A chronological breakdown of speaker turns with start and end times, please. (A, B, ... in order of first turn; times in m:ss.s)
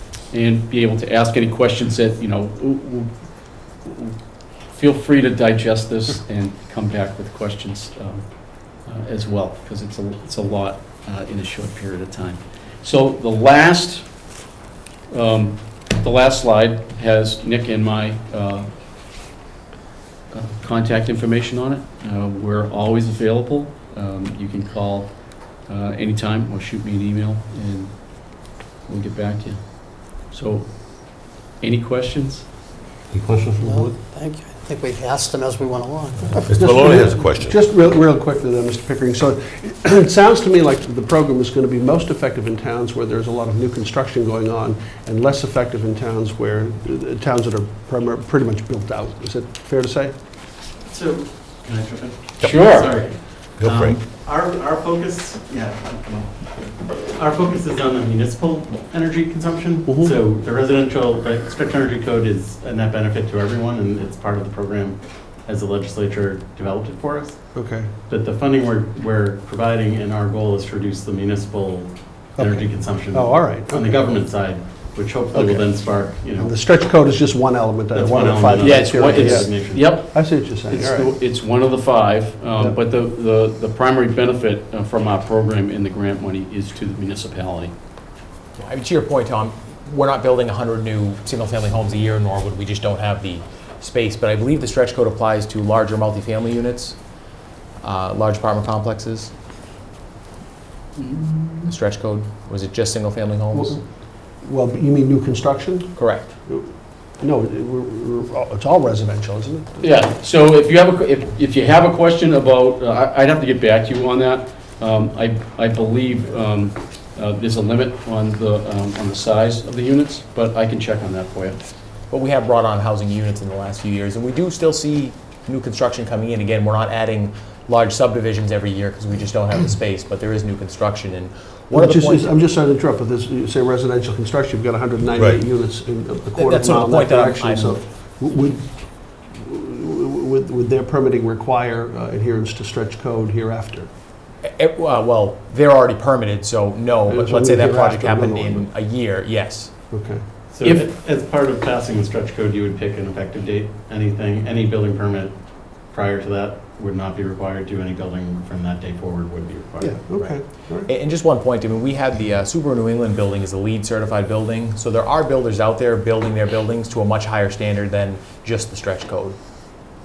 0:00.3-0:03.1 A
0:03.8-0:04.2 A
0:04.7-0:08.2 A
0:08.8-0:14.1 A
0:15.1-0:18.7 A
0:20.3-0:25.1 A
0:25.6-0:32.4 A
0:33.1-0:33.9 B
0:33.6-0:37.0 C
0:36.5-0:50.1 D
0:36.5-0:37.6 B
0:50.8-0:56.5 E
0:52.4-0:52.9 A
0:53.6-0:54.0 B
0:57.0-1:07.4 E
0:59.8-1:00.1 D
1:07.5-1:07.9 D
1:08.1-1:16.5 E
1:12.4-1:14.2 D
1:15.3-1:15.8 D
1:16.3-1:21.2 D
1:17.9-1:20.0 E
1:18.6-1:27.7 A
1:28.6-1:37.0 F
1:37.8-1:39.3 F
1:41.0-1:41.7 A
1:41.6-1:43.8 F
1:43.5-1:43.8 D
1:44.4-1:49.9 D
1:46.0-1:46.3 F
1:49.8-2:01.6 A
2:02.1-2:12.3 F
2:11.7-2:18.7 D
2:16.3-2:17.8 F
2:19.3-2:23.9 D
2:24.4-2:29.7 F
2:27.1-2:28.7 D
2:29.9-2:30.2 D
2:30.5-2:35.4 E
2:35.9-2:40.0 E
2:39.8-2:40.9 D
2:40.8-2:49.4 F